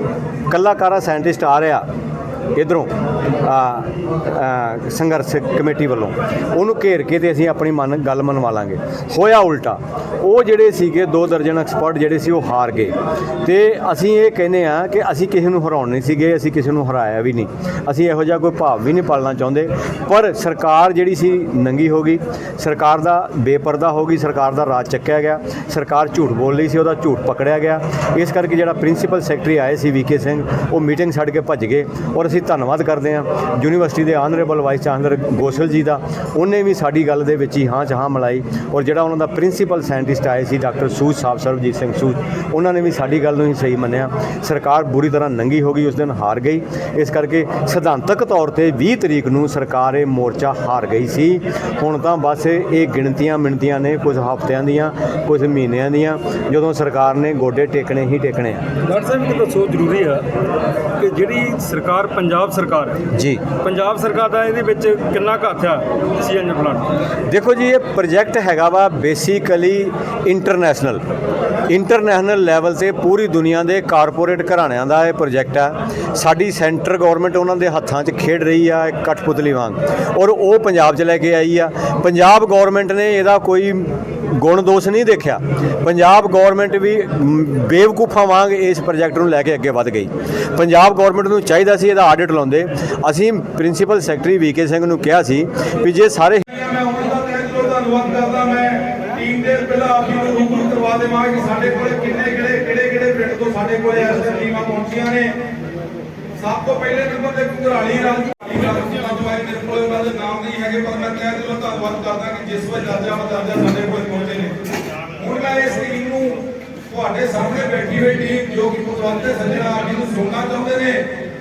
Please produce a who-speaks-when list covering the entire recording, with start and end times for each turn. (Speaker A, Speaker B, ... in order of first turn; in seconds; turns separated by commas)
Speaker A: 0.5-1.9, Speaker A: 2.5-58.6, Speaker B: 58.8-60.2, Speaker B: 61.0-63.0, Speaker A: 63.1-63.4, Speaker B: 63.6-66.9, Speaker A: 67.2-71.0, Speaker A: 71.7-96.4, Speaker C: 96.5-105.3, Speaker C: 106.4-114.6, Speaker C: 115.2-121.1